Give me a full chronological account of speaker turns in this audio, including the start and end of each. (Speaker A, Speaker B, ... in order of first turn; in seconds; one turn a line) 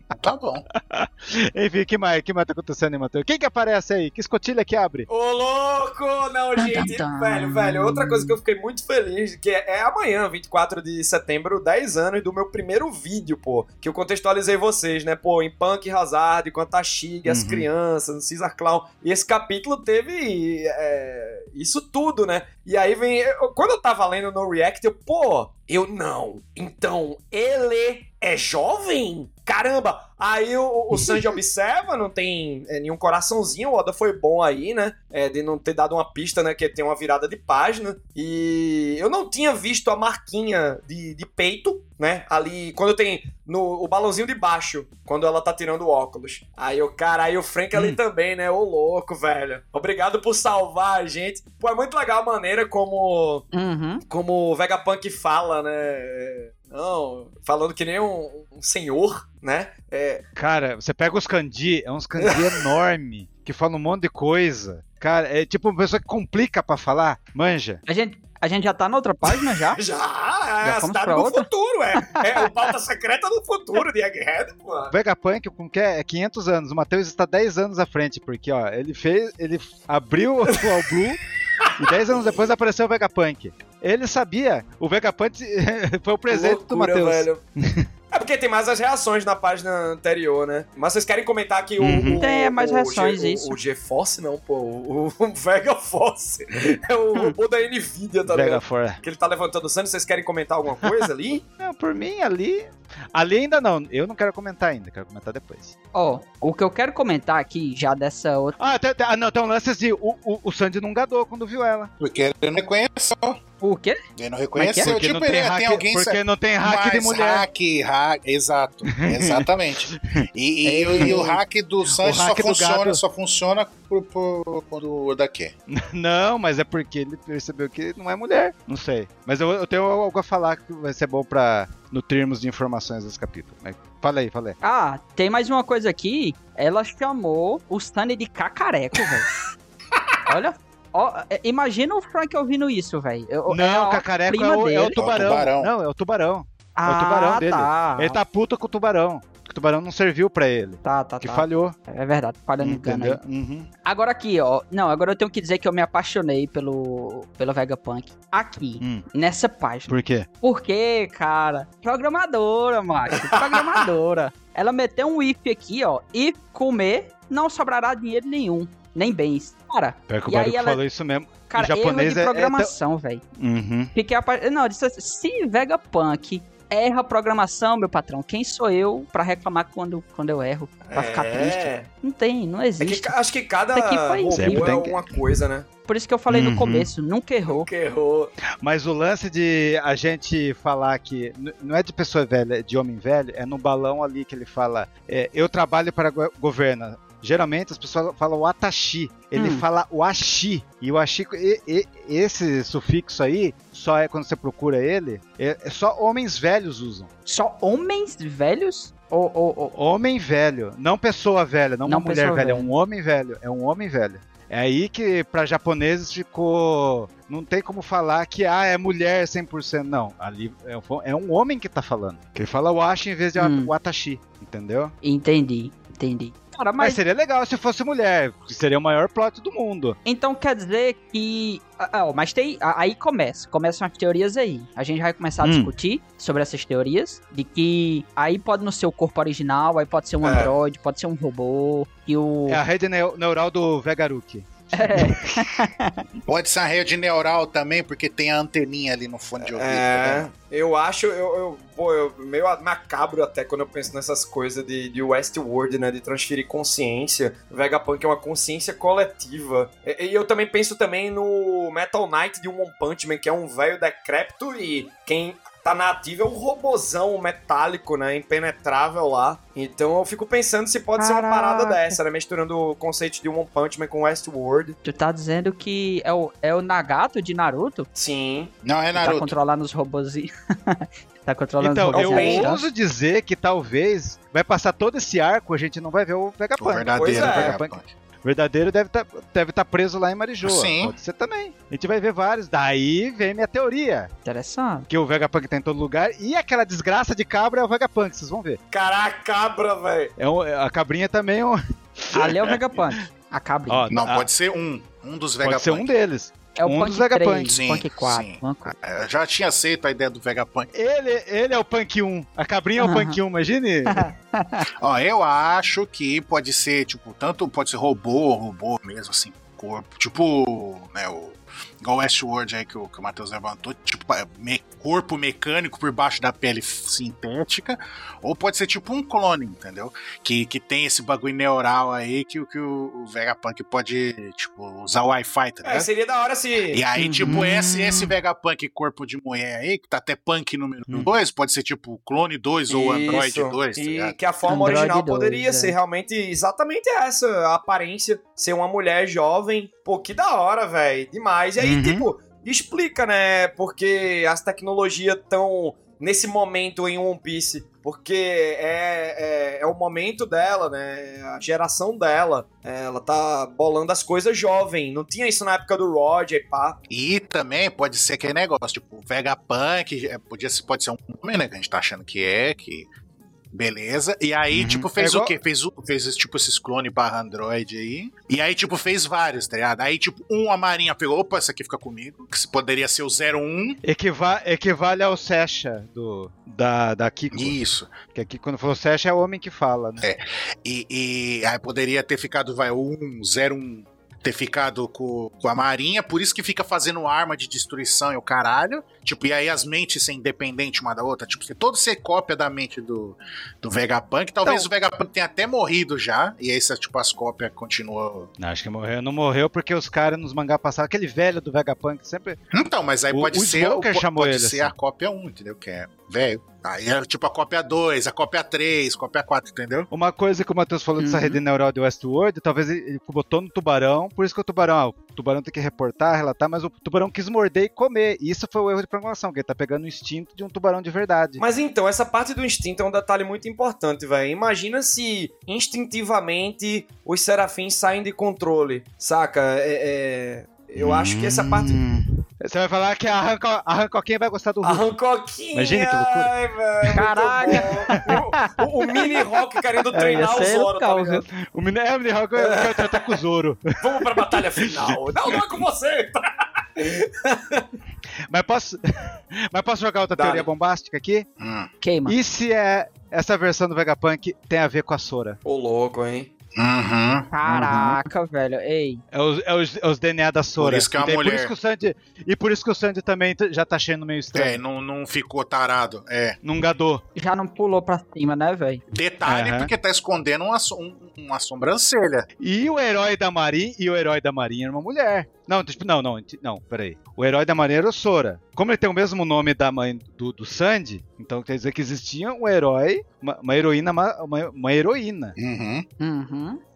Speaker A: 0.1-0.7
Speaker B: 0.7-5.1
Speaker C: 5.1-53.5
Speaker D: 6.6-8.3
Speaker B: 17.2-17.6
Speaker B: 47.7-48.0
Speaker D: 53.5-54.0
Speaker C: 54.1-60.2
Speaker B: 60.4-67.8
Speaker C: 62.2-62.6
Speaker D: 67.9-69.8
Speaker C: 69.7-74.9
Speaker D: 70.6-71.5
Speaker D: 72.1-72.5
Speaker B: 74.9-81.2
Speaker B: 81.8-87.9
Speaker C: 86.3-87.4
Speaker C: 88.1-101.4
Speaker B: 91.8-92.2
Speaker D: 92.2-93.5
Speaker B: 98.3-99.0
Speaker B: 101.6-105.7
Speaker D: 105.9-108.6
Speaker B: 108.6-111.9
Speaker A: 112.0-113.4
Speaker D: 113.6-114.0
Speaker A: 114.2-125.5
Speaker D: 114.5-114.9
Speaker B: 114.8-117.5
Speaker B: 118.9-120.0
Speaker D: 120.6-121.4
Speaker B: 121.9-123.0
Speaker B: 125.7-134.6
Speaker D: 134.6-139.3
Speaker D: 140.2-145.0
Speaker B: 143.5-151.7
Speaker A: 144.9-145.7
Speaker D: 146.8-148.2
Speaker D: 150.8-153.2
Speaker B: 152.6-153.7
Speaker D: 153.8-170.8
Speaker B: 159.9-160.3
Speaker C: 163.2-163.8
Speaker B: 170.1-172.7
Speaker D: 171.5-173.2
Speaker B: 173.4-173.9
Speaker D: 173.9-183.1
Speaker C: 180.9-181.9
Speaker C: 182.8-185.7
Speaker D: 183.7-184.8
Speaker B: 184.3-185.1
Speaker D: 185.9-187.7
Speaker B: 186.3-186.9
Speaker C: 187.5-188.3
Speaker B: 188.6-207.1
Speaker D: 199.3-199.6
Speaker D: 207.2-209.7
Speaker B: 209.7-224.9
Speaker D: 211.8-212.7
Speaker D: 223.3-223.7
Speaker D: 225.0-227.0
Speaker B: 226.8-230.0
Speaker D: 230.0-242.6
Speaker B: 235.4-235.7
Speaker C: 240.2-240.5
Speaker B: 242.5-245.4
Speaker D: 244.7-246.0
Speaker A: 246.3-250.3
Speaker C: 249.4-274.8
Speaker D: 271.0-272.0
Speaker D: 274.8-277.9
Speaker C: 277.9-278.5
Speaker A: 278.6-279.3
Speaker D: 278.9-282.6
Speaker B: 281.6-294.1
Speaker C: 281.9-282.6
Speaker A: 286.6-287.9
Speaker C: 286.9-287.6
Speaker A: 290.4-290.9
Speaker D: 294.2-294.9
Speaker B: 294.9-298.6
Speaker C: 298.7-300.1
Speaker B: 300.2-302.8
Speaker D: 302.1-303.9
Speaker B: 303.7-304.3
Speaker A: 303.9-305.9
Speaker B: 305.4-307.6
Speaker D: 306.6-308.7
Speaker A: 307.5-310.7
Speaker B: 310.7-314.1
Speaker D: 312.8-313.2
Speaker D: 313.9-314.6
Speaker A: 314.8-335.9
Speaker C: 335.6-336.8
Speaker A: 336.7-344.1
Speaker D: 337.0-337.4
Speaker B: 337.2-338.1
Speaker C: 342.7-366.8
Speaker D: 344.4-345.7
Speaker B: 351.6-352.1
Speaker A: 366.9-372.9
Speaker A: 373.5-383.8
Speaker B: 374.5-375.3
Speaker B: 383.8-387.6
Speaker A: 387.3-387.9
Speaker B: 388.1-390.0
Speaker A: 390.0-408.3
Speaker B: 408.4-412.4
Speaker A: 412.5-419.9
Speaker B: 413.1-414.7
Speaker B: 419.9-431.4
Speaker D: 421.0-421.4
Speaker C: 431.4-441.8
Speaker B: 440.8-444.9
Speaker C: 444.6-451.2
Speaker B: 445.5-446.3
Speaker D: 446.9-449.1
Speaker B: 447.5-448.1
Speaker D: 449.9-451.2
Speaker B: 451.4-455.4
Speaker C: 452.4-453.2
Speaker C: 453.8-456.2
Speaker C: 456.8-457.6
Speaker B: 458.3-461.3
Speaker C: 460.1-460.5
Speaker A: 461.4-461.7
Speaker D: 461.8-462.1
Speaker B: 462.1-465.4
Speaker C: 465.4-466.3
Speaker A: 466.6-467.3
Speaker D: 467.3-469.0
Speaker B: 467.4-468.0
Speaker B: 469.1-474.6
Speaker A: 470.6-471.5
Speaker A: 474.3-476.4
Speaker B: 476.4-477.0
Speaker D: 477.1-478.8
Speaker A: 478.9-482.2
Speaker B: 479.2-479.7
Speaker B: 482.4-495.3
Speaker A: 495.4-495.9
Speaker D: 496.0-496.6